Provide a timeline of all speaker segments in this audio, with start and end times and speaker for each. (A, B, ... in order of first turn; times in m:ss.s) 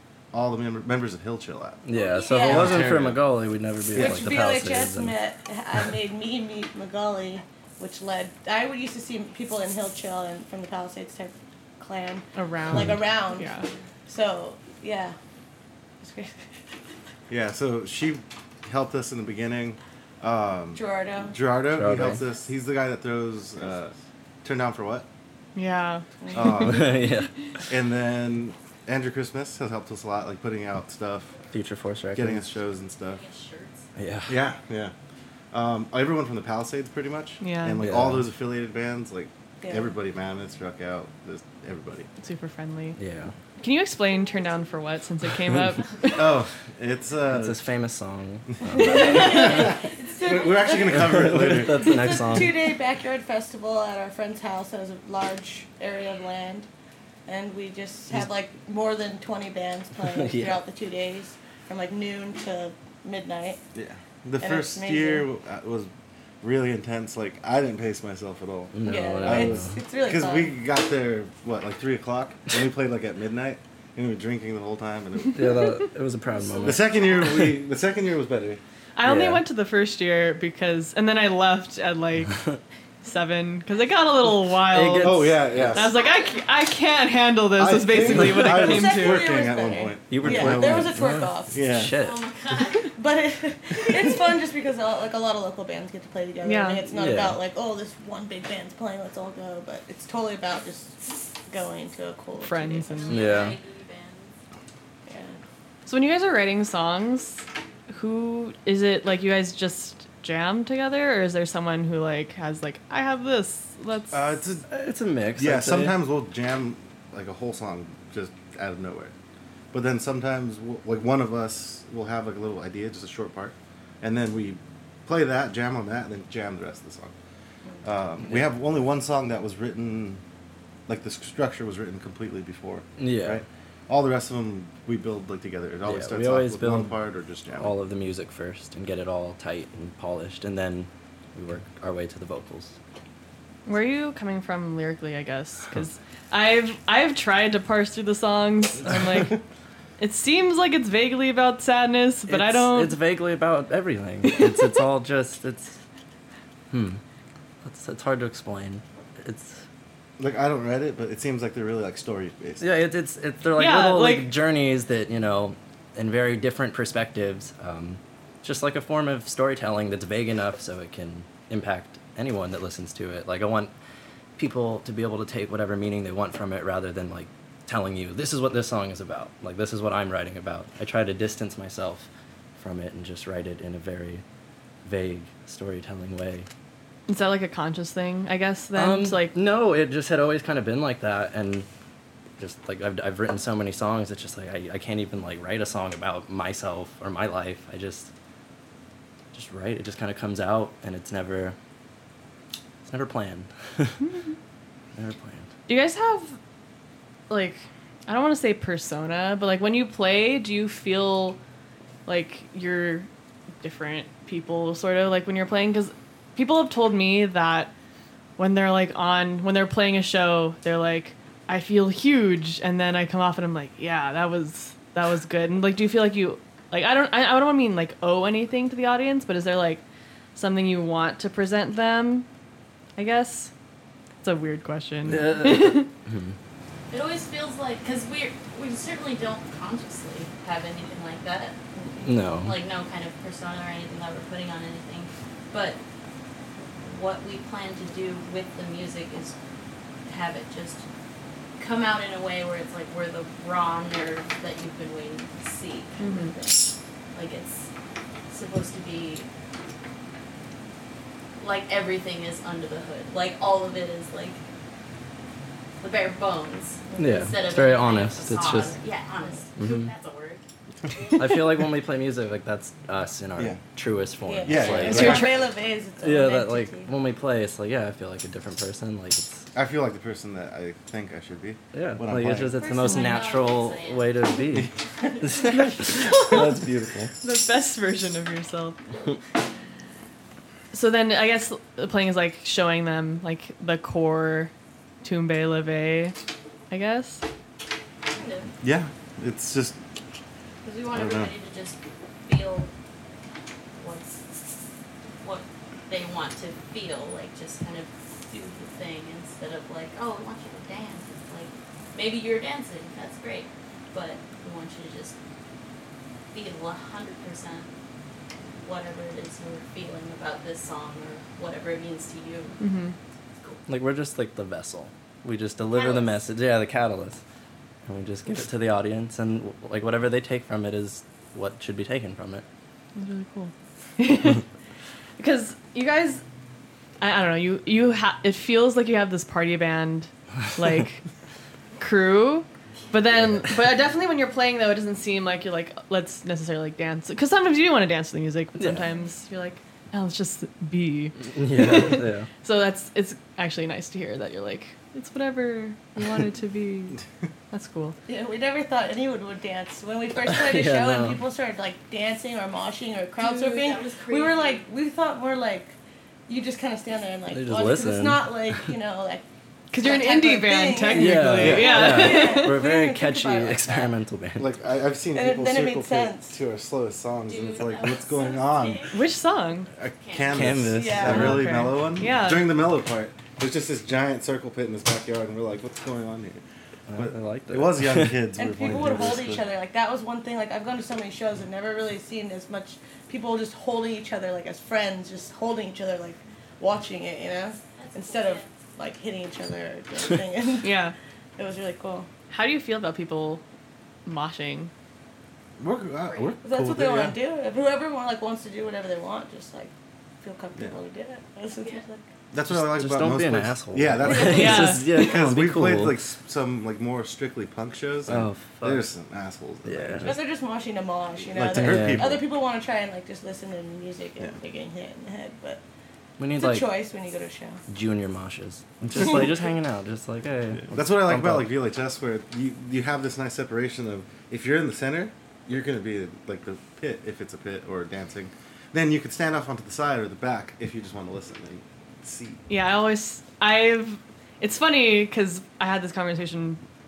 0:00.3-0:01.8 A
0:01.8-0:05.2 B
0:01.9-0:02.7 C
0:02.2-0:02.9 D
0:02.5-0:03.2 A
0:03.9-0:13.5 D
0:03.9-0:04.4 A
0:12.3-0:13.7 E
0:14.1-0:15.2 D
0:16.0-0:16.5 D
0:17.3-0:25.1 A
0:20.7-0:21.4 D
0:21.7-0:22.2 B
0:25.5-0:26.7 E
0:26.2-0:26.6 D
0:26.3-0:27.0 A
0:26.5-0:27.3 B
0:27.7-0:31.4 A
0:31.5-0:32.5 B
0:32.1-0:33.2 A
0:33.0-0:33.8 C
0:34.0-0:34.4 B
0:34.3-0:34.9 A
0:35.5-0:42.1 A
0:37.4-0:37.8 E
0:37.8-0:38.3 B
0:39.6-0:39.9 D
0:42.2-0:43.0 E
0:43.0-0:43.3 B
0:43.6-0:46.2 E
0:46.1-0:47.6 A
0:47.3-0:49.7 B
0:48.8-0:52.4 A
0:48.8-0:56.7 D
0:49.0-0:50.8 C
0:50.9-0:52.7 B
0:57.2-1:03.6 D
1:00.0-1:00.6 B
1:03.7-1:05.9 A
1:04.4-1:05.3 D
1:06.4-1:15.8 A
1:08.7-1:09.8 B
1:08.8-1:10.5 D
1:15.3-1:17.6 B
1:16.4-1:16.9 D
1:16.6-1:18.6 A
1:19.0-1:22.4 E
1:19.0-1:19.4 B
1:23.0-1:29.3 E
1:24.6-1:25.9 B
1:25.0-1:25.9 A
1:26.0-1:26.4 C
1:27.6-1:32.0 A
1:28.2-1:28.7 B
1:28.6-1:31.6 D
1:30.1-1:32.2 B
1:32.0-1:32.9 C
1:32.9-1:43.1 D
1:36.4-1:36.8 E
1:36.9-1:37.4 B
1:42.4-1:43.4 E
1:42.9-1:44.3 C
1:43.1-1:43.6 B
1:45.1-1:45.4 D
1:45.8-1:54.4 E
1:54.1-1:54.7 A
1:54.7-1:56.0 B
1:55.4-1:59.1 A
1:59.7-2:07.1 A
2:07.8-2:10.2 A
2:10.9-2:17.7 A
2:13.0-2:13.4 B
2:15.8-2:17.0 B
2:17.5-2:22.7 B
2:23.6-2:29.4 E
2:30.0-2:33.0 E
2:32.3-2:35.8 B
2:36.7-2:37.0 B
2:37.6-2:39.6 B
2:40.2-2:42.7 A
2:42.6-2:53.7 B
2:43.5-2:44.3 E
2:54.4-3:04.2 B
3:04.8-3:06.4 B
3:07.1-3:09.4 E
3:08.7-3:11.7 B
3:12.4-3:18.1 B
3:19.3-3:21.6 B
3:22.8-3:24.0 B
3:24.0-3:24.3 E
3:25.0-3:25.5 B
3:25.7-3:26.4 E
3:27.3-3:31.4 E
3:32.0-3:33.1 E
3:33.6-3:37.7 E
3:38.4-3:49.8 E
3:50.3-3:52.2 E
3:53.0-3:53.5 E
3:54.2-3:55.9 E
3:55.0-3:56.3 B
3:56.9-4:01.6 C
4:02.0-4:02.6 B
4:02.4-4:05.8 C
4:06.8-4:09.3 C
4:10.1-4:10.8 C
4:11.6-4:17.7 C
4:16.0-4:16.3 E
4:18.3-4:19.3 C
4:21.4-4:24.4 C
4:25.8-4:30.4 C
4:26.9-4:27.2 D
4:27.0-4:28.8 B
4:29.6-4:29.9 B
4:31.2-4:35.3 B
4:34.2-4:36.9 D
4:34.4-4:35.3 A
4:34.8-4:35.3 E
4:36.0-4:39.4 B
4:39.5-4:42.8 A
4:41.7-4:46.7 B
4:42.6-4:44.3 C
4:42.6-4:43.3 D
4:45.2-4:47.1 A
4:45.7-4:46.4 E
4:47.2-4:48.8 E
4:50.7-4:54.5 E
4:55.0-4:56.2 E
4:56.7-4:57.2 E
4:58.1-4:58.5 C
4:58.6-4:59.8 A
5:00.6-5:02.7 C
5:00.9-5:01.3 A
5:03.7-5:04.5 C
5:05.2-5:15.1 C
5:16.3-5:17.7 C
5:18.4-5:22.6 C
5:22.6-5:22.9 E
5:23.4-5:23.6 C
5:23.7-5:27.2 B
5:25.7-5:26.2 C
5:27.8-5:32.4 B
5:32.9-5:34.4 E
5:35.2-5:36.2 E
5:37.0-5:41.0 E
5:41.8-5:57.0 E
5:48.6-5:48.8 B
5:51.2-5:52.3 B
5:57.5-5:58.0 E
5:58.1-6:05.7 D
6:00.2-6:01.2 B
6:03.2-6:04.6 C
6:06.3-6:09.2 D
6:07.3-6:08.4 B
6:09.7-6:12.6 E
6:09.8-6:14.0 D
6:10.8-6:14.5 B
6:11.4-6:11.9 A
6:14.4-6:18.9 A
6:15.1-6:16.4 D
6:17.3-6:19.0 C
6:18.9-6:19.7 E
6:19.7-6:26.4 A
6:20.0-6:20.5 C
6:20.2-6:21.6 B
6:20.7-6:21.5 D
6:21.0-6:22.4 E
6:26.9-6:28.2 B
6:26.9-6:29.4 A
6:28.4-6:40.8 D
6:37.7-6:38.5 C
6:40.6-6:40.9 E
6:41.4-6:42.1 D
6:42.3-6:43.4 E
6:44.0-6:44.7 E
6:45.6-6:47.2 A
6:46.4-6:52.1 D
6:51.6-6:51.8 C
6:52.3-7:00.2 A
6:52.5-6:56.0 B
6:54.1-6:54.8 E
6:58.1-6:58.8 B
6:59.6-7:00.2 B
7:00.0-7:05.6 D
7:01.3-7:02.2 A
7:01.4-7:02.2 B
7:06.2-7:06.7 B
7:06.3-7:07.6 D
7:07.7-7:11.5 B
7:10.7-7:22.4 A
7:22.5-7:26.6 E